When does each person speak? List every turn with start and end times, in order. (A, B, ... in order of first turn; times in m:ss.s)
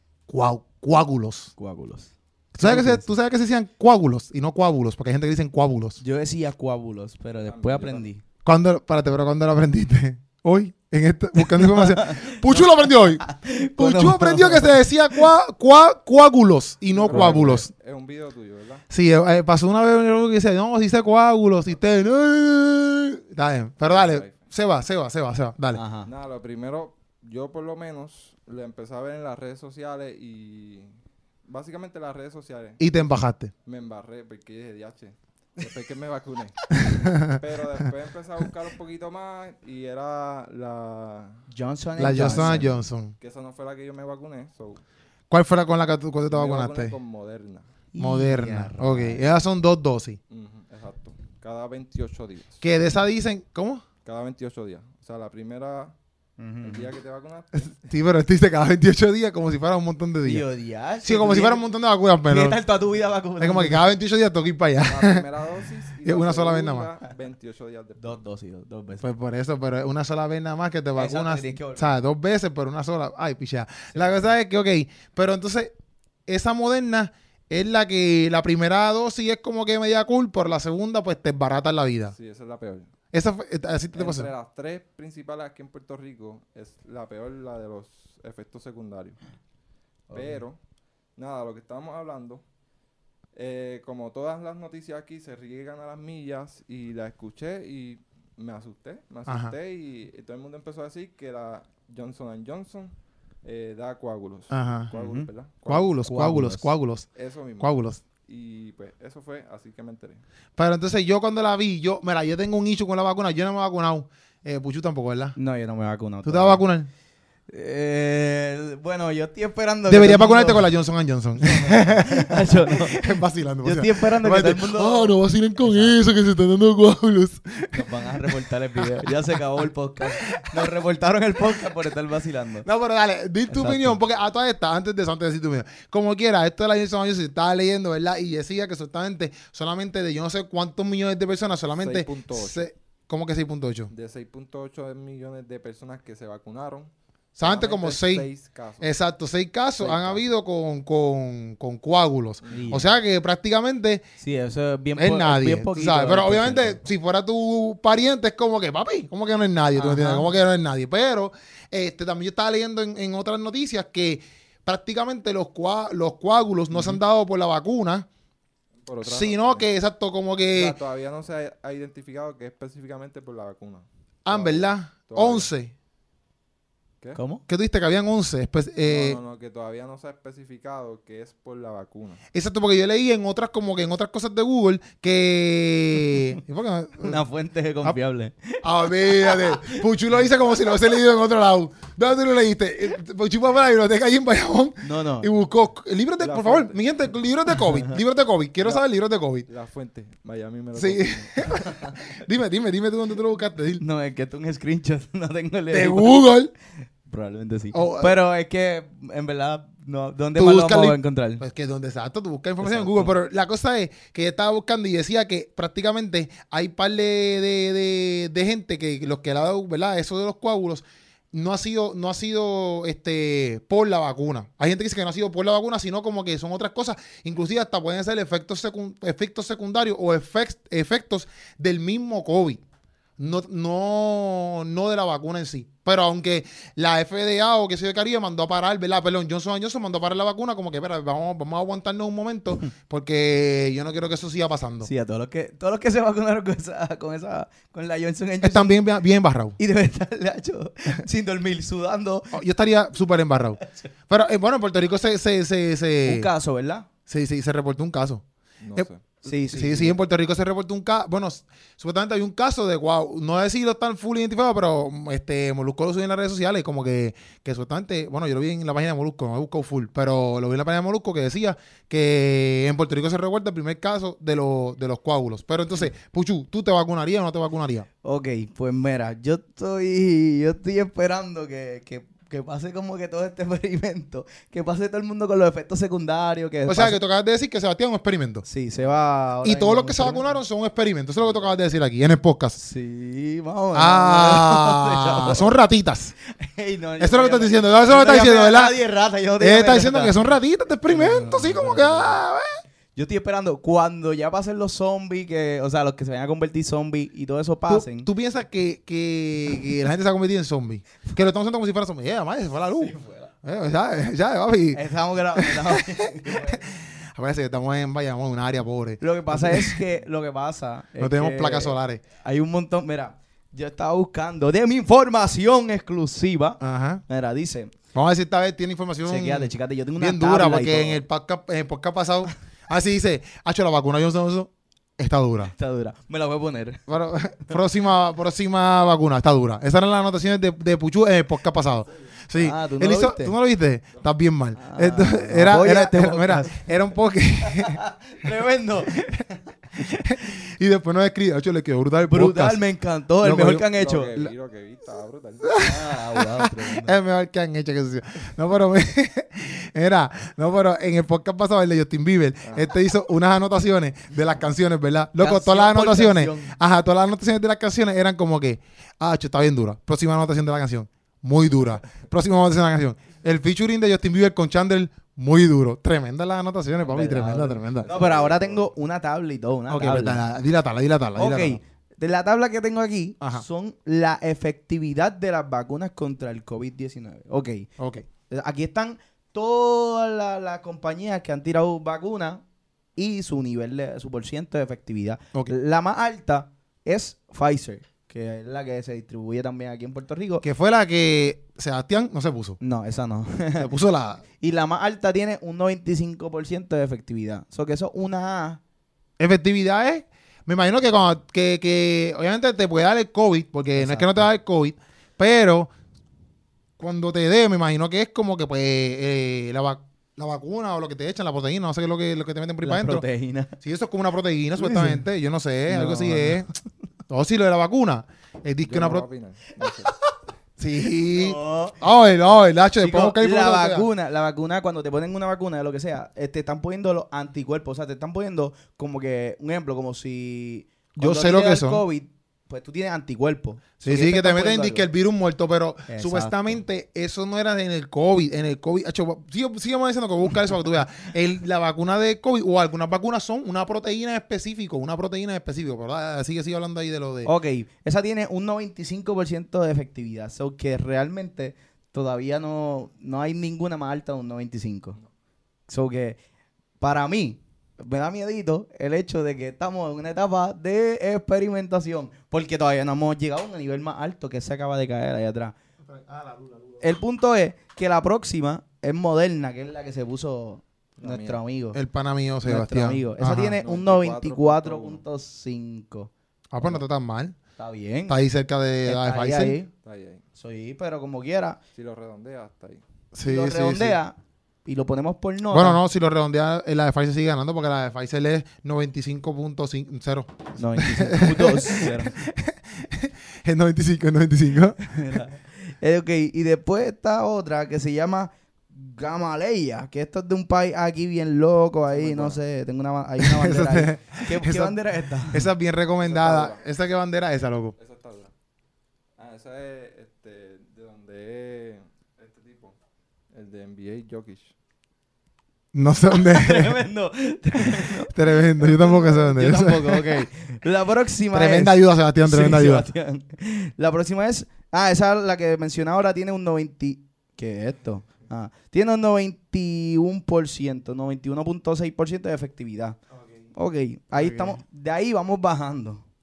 0:00.3-0:01.5 A
0:01.6-0:03.1 B
0:02.5-0:06.0 A
0:06.0-0:08.2 B
0:07.4-0:08.1 C
0:08.4-0:13.2 A
0:11.4-0:15.2 B
0:13.8-0:17.7 A
0:16.9-0:18.8 C
0:17.1-0:17.6 B
0:18.9-0:25.8 A
0:23.8-0:24.5 C
0:25.7-0:26.1 B
0:26.0-0:33.0 C
0:32.8-0:33.5 A
0:33.6-0:41.4 C
0:36.7-0:37.4 A
0:41.5-0:42.7 B
0:42.0-0:43.1 A
0:42.0-0:44.8 C
0:45.3-0:47.0 A
0:46.3-0:47.7 C
0:47.9-0:49.3 B
0:48.0-0:50.2 A
0:50.3-0:52.6 C
0:52.6-0:53.8 A
0:54.0-0:55.9 C
0:56.4-0:56.9 B
0:56.6-0:57.9 C
0:57.5-1:00.4 A
1:00.2-1:01.6 B
1:01.0-1:02.6 A
1:02.3-1:03.8 B
1:03.4-1:05.3 A
1:04.8-1:08.2 C
1:06.0-1:06.9 A
1:08.0-1:09.0 B
1:09.0-1:15.7 A
1:10.9-1:11.9 B
1:13.9-1:14.2 C
1:16.3-1:22.1 A
1:22.1-1:22.9 C
1:23.1-1:24.3 A
1:23.9-1:29.2 C
1:30.1-1:30.4 B
1:30.1-1:30.6 C
1:31.2-1:32.4 C
1:33.3-1:45.9 C
1:39.3-1:39.5 A
1:44.5-1:44.9 A
1:44.9-1:45.3 B
1:45.7-1:47.1 A
1:46.1-1:46.7 B
1:47.1-1:50.2 C
1:47.6-1:48.0 A
1:50.6-1:55.3 A
1:55.4-1:56.6 B
1:56.2-1:56.9 A
1:57.5-2:00.7 B
1:59.9-2:08.4 A
2:01.4-2:06.0 B
2:07.7-2:12.6 B
2:09.0-2:09.4 A
2:10.2-2:10.7 A
2:12.6-2:23.9 A
2:13.5-2:14.0 B
2:21.8-2:22.7 C
2:23.9-2:28.9 C
2:27.4-2:28.3 A
2:28.8-2:34.0 A
2:29.8-2:30.2 C
2:32.4-2:32.8 C
2:32.5-2:32.9 B
2:34.2-2:36.8 B
2:35.0-2:48.1 A
2:39.7-2:40.3 B
2:46.7-2:47.0 B
2:48.8-2:49.7 C
2:49.0-2:50.8 A
2:50.5-2:55.5 C
2:54.2-2:55.7 A
2:57.1-2:57.4 B
2:57.5-2:59.2 A
2:58.8-3:02.2 C
3:02.3-3:07.2 A
3:07.0-3:09.8 B
3:08.6-3:19.4 A
3:14.8-3:15.3 B
3:16.2-3:16.8 C
3:19.5-3:21.8 C
3:20.7-3:23.8 A
3:23.8-3:26.2 B
3:25.7-3:26.5 A
3:27.0-3:31.4 B
3:27.7-3:28.1 A
3:30.4-3:52.6 A
3:32.6-3:33.1 B
3:53.2-4:04.9 A
4:04.8-4:08.8 B
4:08.4-4:09.6 A
4:09.6-4:12.3 B
4:12.3-4:16.3 A
4:13.6-4:13.9 B
4:16.0-4:16.9 B
4:17.1-4:18.2 A
4:18.6-4:19.0 C
4:19.2-4:20.0 B
4:19.5-4:37.9 A
4:38.0-4:47.0 B
4:46.7-4:48.4 A
4:48.4-4:50.3 B
4:49.4-4:52.6 A
4:52.6-4:55.5 B
4:53.7-4:56.1 A
4:56.3-5:00.2 B
4:57.0-4:58.7 A
4:59.4-5:02.6 A
5:00.9-5:02.2 B
5:02.9-5:08.1 B
5:07.7-5:14.8 A
5:12.8-5:13.3 B
5:14.7-5:16.6 B
5:15.3-5:19.8 A
5:19.0-5:27.7 B
5:21.0-5:22.0 A
5:26.6-5:27.0 A
5:27.9-5:35.5 A
5:29.0-5:31.0 B
5:35.5-5:36.8 B
5:36.9-5:47.8 A
5:42.4-5:43.3 B
5:44.6-5:46.6 B
5:47.4-5:50.0 B
5:48.9-5:49.2 A
5:49.8-5:52.6 A
5:52.1-5:54.1 B
5:53.2-5:54.3 A
5:53.7-5:55.6 C
5:55.4-6:17.9 A
5:55.6-5:57.0 B
6:05.2-6:06.5 B
6:16.8-6:20.2 B
6:17.8-6:18.7 C
6:19.7-6:21.6 A
6:21.2-6:27.7 B
6:27.8-6:28.1 A
6:28.3-6:32.4 B
6:33.0-6:40.4 B
6:40.4-6:42.6 A
6:42.6-6:43.7 B
6:43.6-6:44.2 A
6:44.4-6:48.6 B
6:49.2-6:55.7 A
6:53.7-6:54.2 B
6:56.8-7:03.0 A
7:02.6-7:03.5 B
7:03.6-7:06.5 A
7:04.6-7:05.0 B
7:05.7-7:06.5 B
7:07.1-7:09.0 A
7:08.6-7:09.9 C
7:09.8-7:10.1 B
7:10.6-7:13.9 A
7:11.0-7:11.8 B
7:12.8-7:24.9 B
7:21.0-7:21.8 A
7:23.8-7:37.3 A
7:25.9-7:26.6 B
7:37.2-7:45.0 B
7:45.7-7:46.2 B
7:46.8-7:55.5 B
7:55.8-7:56.9 A
7:56.8-8:01.8 B
8:01.0-8:01.4 C
8:01.7-8:03.6 A
8:02.4-8:06.1 B
8:03.6-8:05.0 C
8:06.5-8:07.4 A
8:07.6-8:08.2 B
8:08.1-8:09.6 A
8:08.8-8:09.7 B
8:09.8-8:10.2 C
8:10.4-8:11.6 B
8:11.8-8:12.8 C
8:13.1-8:14.0 A
8:13.2-8:15.8 B
8:15.5-8:25.2 A
8:20.6-8:22.2 B
8:24.8-8:35.5 B
8:31.9-8:32.4 C
8:33.2-8:34.8 A
8:35.3-8:37.7 A
8:36.0-8:36.6 C
8:37.8-8:38.3 C
8:39.2-8:42.8 C
8:43.3-8:44.5 C
8:45.7-8:46.8 A
8:46.1-9:03.0 B
8:47.6-8:50.3 A
8:51.3-8:52.9 A
9:03.5-9:06.0 B
9:04.1-9:04.6 A